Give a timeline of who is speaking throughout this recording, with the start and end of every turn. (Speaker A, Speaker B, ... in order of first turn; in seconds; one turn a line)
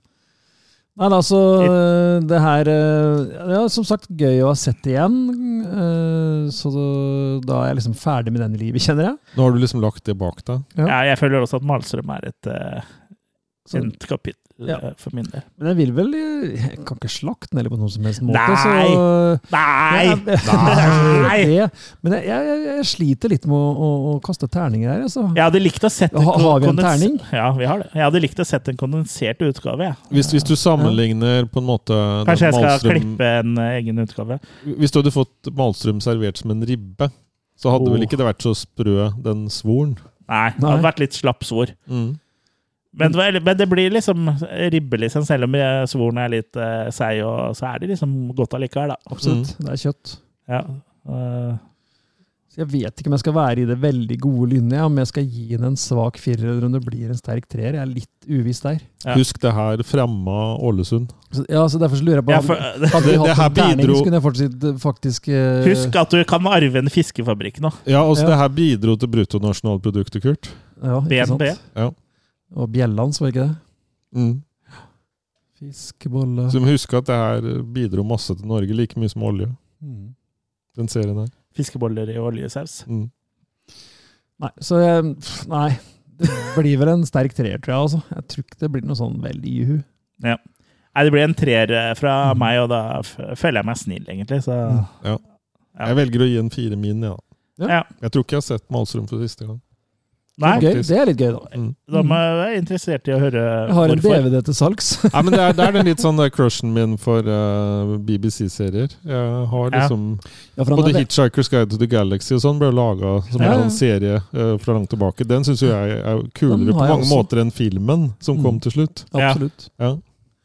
Speaker A: 0.9-9.2
Speaker B: 9.3-10.7
Speaker C: 10.8-12.8
Speaker A: 13.7-13.9
Speaker C: 13.7-15.4
Speaker A: 15.6-25.4
Speaker C: 18.3-21.5
Speaker B: 20.4-21.3
Speaker C: 25.3-30.5
Speaker A: 26.1-27.2
Speaker B: 30.1-33.2
Speaker C: 32.3-34.4
Speaker B: 34.6-40.0
Speaker C: 40.3-41.7
Speaker A: 40.6-40.9
Speaker B: 41.9-42.2
Speaker C: 42.9-49.1
Speaker A: 49.1-50.2
Speaker B: 49.2-49.5
Speaker C: 50.5-51.6
Speaker A: 52.5-58.9
Speaker B: 59.1-61.1
Speaker A: 61.3-65.9
Speaker C: 62.3-63.1
Speaker B: 62.9-64.1
Speaker C: 65.6-67.8
Speaker B: 67.8-70.6
Speaker A: 70.8-71.6
Speaker C: 71.1-71.6
Speaker A: 72.5-73.6
Speaker B: 74.1-74.4
Speaker A: 75.6-76.6
Speaker B: 76.5-79.6
Speaker A: 79.8-80.1
Speaker B: 80.8-81.3
Speaker C: 81.5-82.8
Speaker A: 84.4-89.8
Speaker C: 90.9-94.9
Speaker B: 95.8-97.2
Speaker B: 97.9-99.6
Speaker C: 100.4-100.7
Speaker B: 100.4-100.9
Speaker A: 100.5-102.2
Speaker C: 101.9-104.3
Speaker A: 103.7-106.0
Speaker B: 105.1-119.1
Speaker A: 110.5-111.1
Speaker A: 113.4-113.8
Speaker A: 116.5-117.3
Speaker A: 118.3-119.7
Speaker C: 119.2-119.4